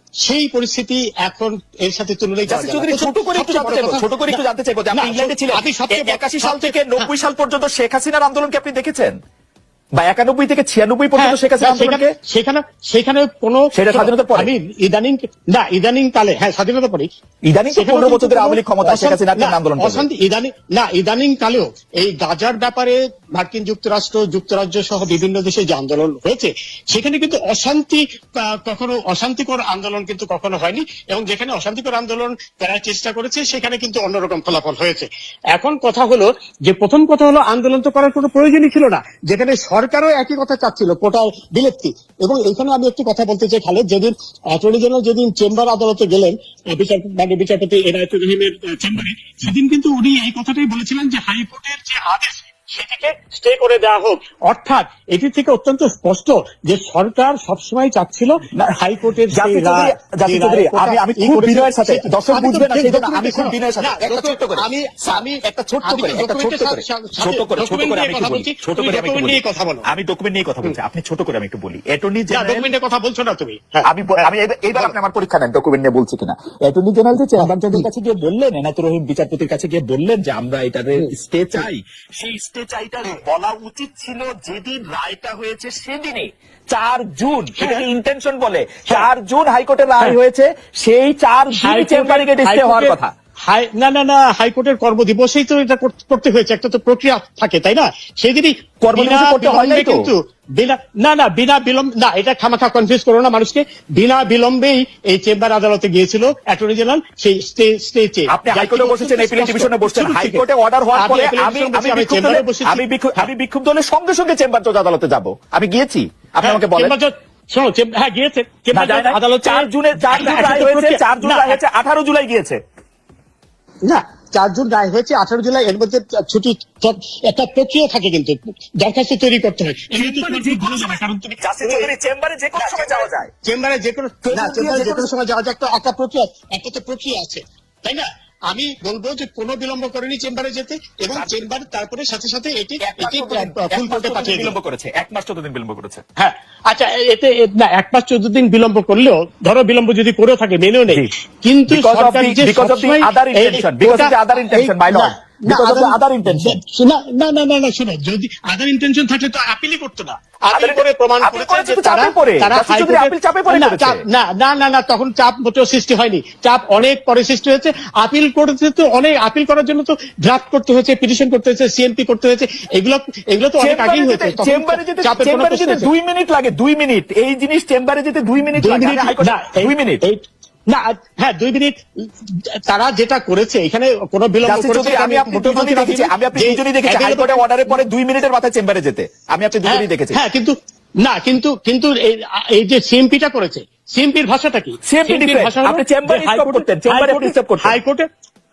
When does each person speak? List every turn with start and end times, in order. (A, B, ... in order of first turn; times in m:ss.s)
0:00.2-0:04.4 A
0:02.5-0:09.2 B
0:04.9-0:07.1 A
0:10.0-0:12.1 B
0:11.2-0:17.1 A
0:13.7-0:14.5 B
0:17.5-0:20.1 B
0:17.7-1:09.9 A
0:59.3-1:12.7 B
1:12.3-1:14.9 A
1:13.8-1:33.1 B
1:17.4-1:17.9 A
1:27.6-1:27.8 A
1:31.6-1:50.4 A
1:38.8-1:40.0 B
1:48.3-1:57.0 B
1:51.0-1:53.3 A
1:56.4-2:01.6 A
1:58.7-2:02.6 B
2:03.8-2:11.9 A
2:10.0-2:13.3 B
2:12.6-2:24.5 A
2:14.2-2:15.1 B
2:21.1-2:21.5 B
2:22.8-2:26.0 B
2:26.2-2:55.9 A
2:31.7-2:36.6 B
2:40.5-2:44.0 B
2:53.6-3:00.0 B
2:58.6-3:07.8 A
3:04.4-3:10.2 B
3:09.6-3:18.0 A
3:14.9-3:17.8 B